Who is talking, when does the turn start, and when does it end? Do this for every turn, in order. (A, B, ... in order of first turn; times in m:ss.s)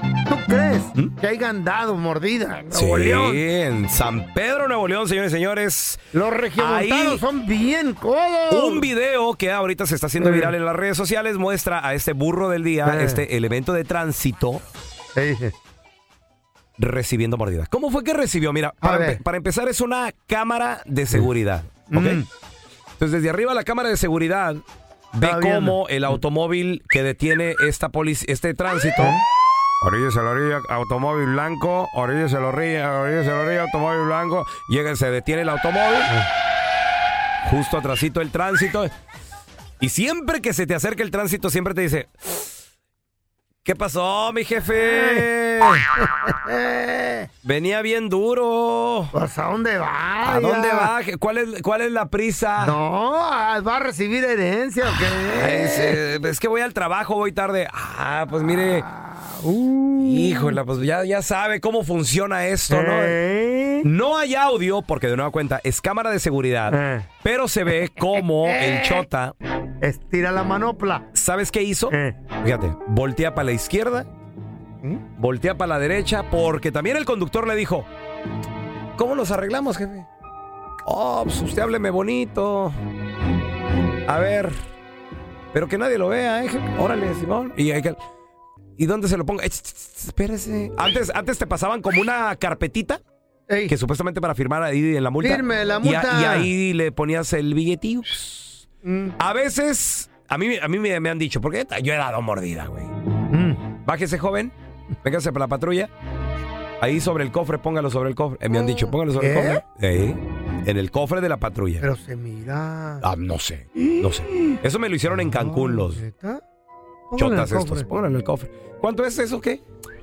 0:00.3-0:03.4 A
0:02.7-0:06.0 B
0:06.1-0:08.9 A
0:06.6-0:07.2 B
0:08.5-0:14.6 B
0:10.2-0:10.5 A
0:12.8-0:13.2 A
0:15.2-0:15.6 A
0:16.8-0:22.2 B
0:18.8-0:19.2 A
0:21.9-0:22.3 A
0:23.0-0:29.2 B
0:25.2-0:26.2 A
0:29.0-0:29.2 A
0:29.8-0:36.1 B
0:37.4-0:38.9 B
0:39.8-0:42.5 B
0:43.6-0:45.9 B
0:44.8-0:47.3 A
0:47.4-0:49.1 B
0:49.1-0:50.9 A
0:50.2-0:52.8 B
0:52.6-0:56.0 A
0:55.3-0:58.9 B
0:58.8-1:00.6 A
1:00.0-1:03.2 B
1:02.7-1:03.9 A
1:03.8-1:09.4 B
1:06.7-1:07.1 A
1:08.4-1:09.1 A
1:09.8-1:11.1 A
1:11.1-1:14.1 B
1:11.9-1:12.2 A
1:15.2-1:17.9 B
1:19.0-1:20.1 B
1:20.8-1:22.8 B
1:24.1-1:24.6 B
1:25.5-1:28.0 B
1:28.8-1:33.0 B
1:33.5-1:33.8 A
1:33.7-1:38.7 B
1:35.2-1:36.5 A
1:38.8-1:39.2 A
1:39.2-1:42.9 B
1:43.3-1:43.6 A
1:43.9-1:45.9 B
1:46.8-1:51.8 B
1:48.5-1:49.6 A
1:51.8-1:53.1 A
1:53.0-1:56.0 B
1:53.8-1:56.4 A
1:57.1-1:57.9 A
1:57.2-1:59.6 B